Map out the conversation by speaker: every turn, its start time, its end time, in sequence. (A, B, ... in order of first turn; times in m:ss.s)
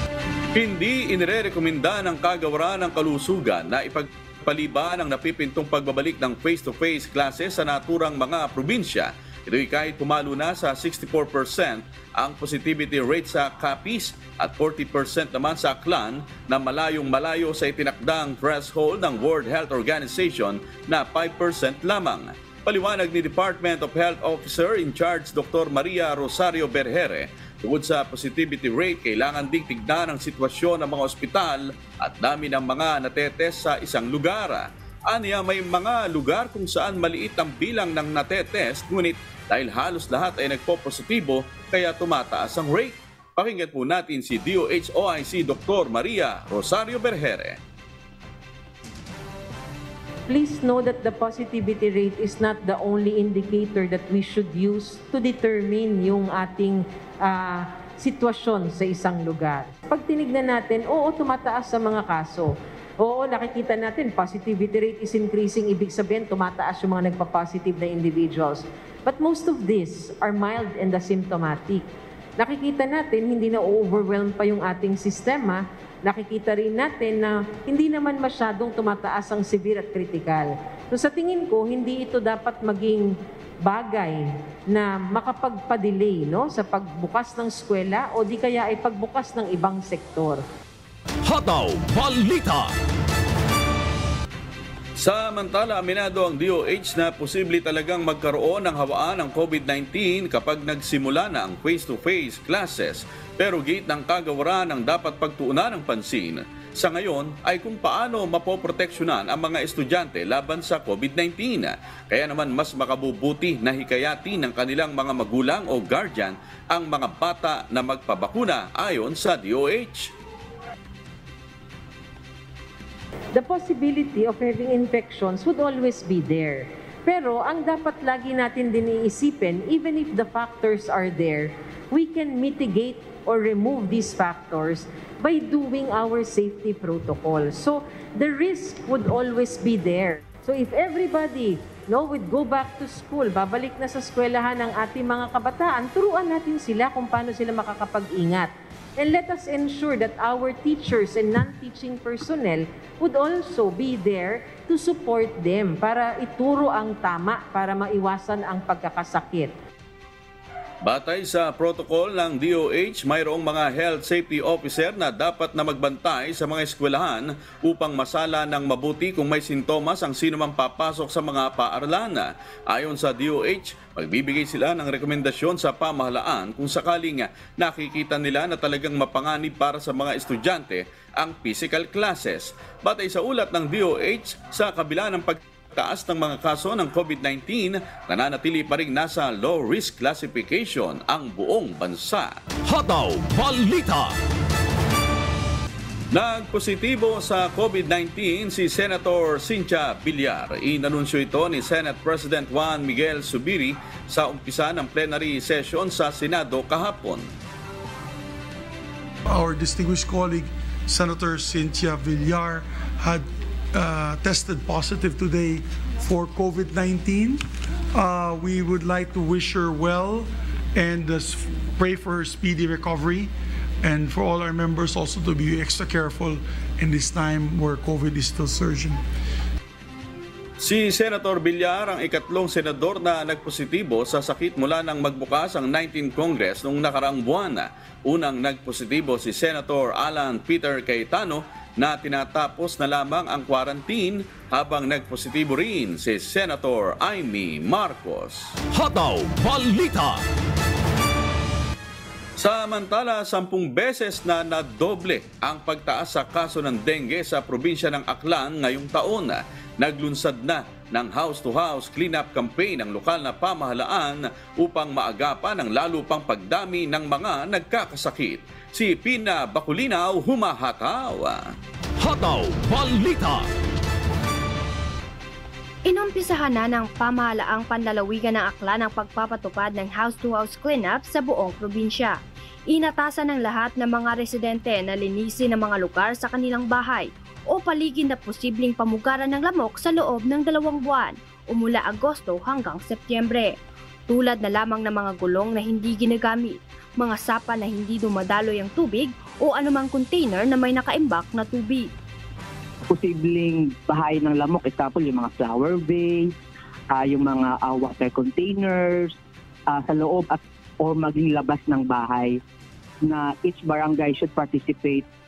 0:00.6-0:47.6 A
0:50.3-1:11.9 B
1:12.4-1:23.1 B
1:23.6-1:30.4 B
1:31.2-1:32.8 C
1:35.0-2:00.1 A
2:03.3-2:39.5 B
2:40.8-3:12.3 A
3:12.7-3:14.2 C
3:16.1-3:27.3 A
3:29.3-3:37.4 D
3:38.0-3:43.3 D
3:43.8-3:49.0 D
3:50.6-4:08.5 A
4:08.7-4:10.2 C
4:12.4-4:31.5 A
4:32.0-4:33.5 C
4:35.9-4:42.2 E
4:42.7-4:53.5 E
4:54.1-5:01.9 E
5:02.9-5:06.3 F
5:06.9-5:09.1 F
5:09.7-5:12.4 F
5:13.0-5:15.1 F